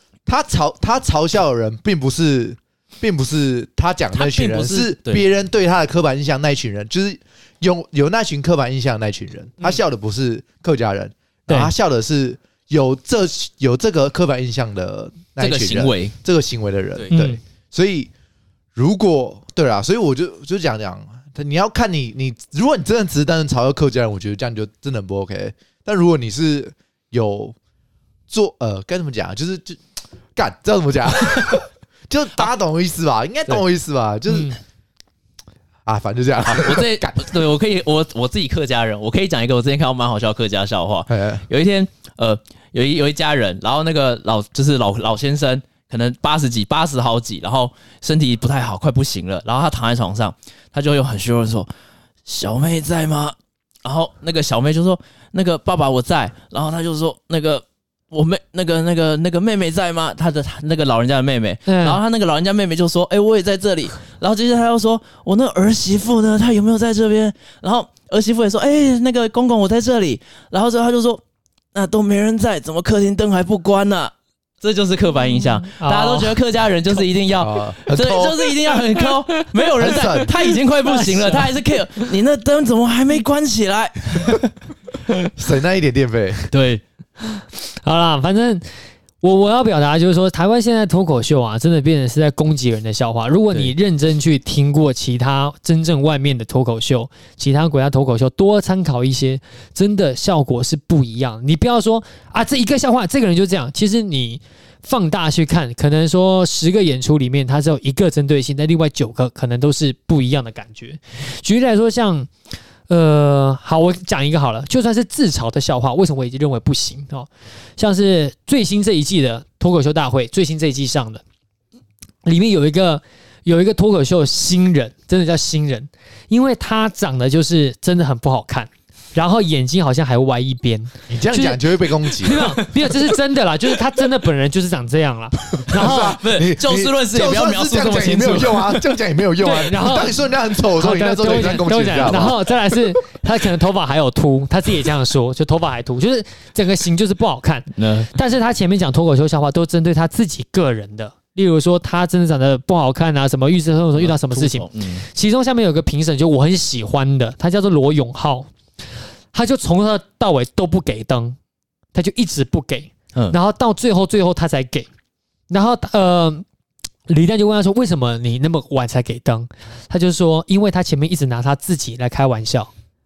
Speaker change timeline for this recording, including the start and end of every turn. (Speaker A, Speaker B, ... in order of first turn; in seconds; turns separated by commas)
Speaker A: 0.3-17.1, Speaker B: 4.1-5.2, Speaker B: 15.4-16.1, Speaker B: 17.0-17.3, Speaker C: 17.1-17.4, Speaker A: 17.7-18.1, Speaker A: 18.8-27.5, Speaker A: 28.3-29.8, Speaker A: 30.4-34.5, Speaker A: 35.9-37.3, Speaker B: 36.5-51.7, Speaker A: 41.1-41.4, Speaker B: 52.2-71.2, Speaker C: 61.7-62.0, Speaker B: 71.7-84.5, Speaker C: 75.8-76.4, Speaker A: 77.4-78.4, Speaker C: 79.0-79.5, Speaker A: 79.8-80.3, Speaker C: 80.2-81.5, Speaker A: 85.4-86.4, Speaker B: 86.5-86.8, Speaker C: 87.3-88.6, Speaker C: 89.2-112.3, Speaker C: 112.9-121.2, Speaker C: 122.2-136.2, Speaker A: 131.1-132.7, Speaker A: 135.7-142.8, Speaker B: 135.8-138.8, Speaker C: 139.4-158.5, Speaker B: 147.8-148.1, Speaker B: 154.0-155.0, Speaker C: 159.3-161.4, Speaker C: 161.9-164.9, Speaker C: 165.5-166.4, Speaker C: 167.1-172.7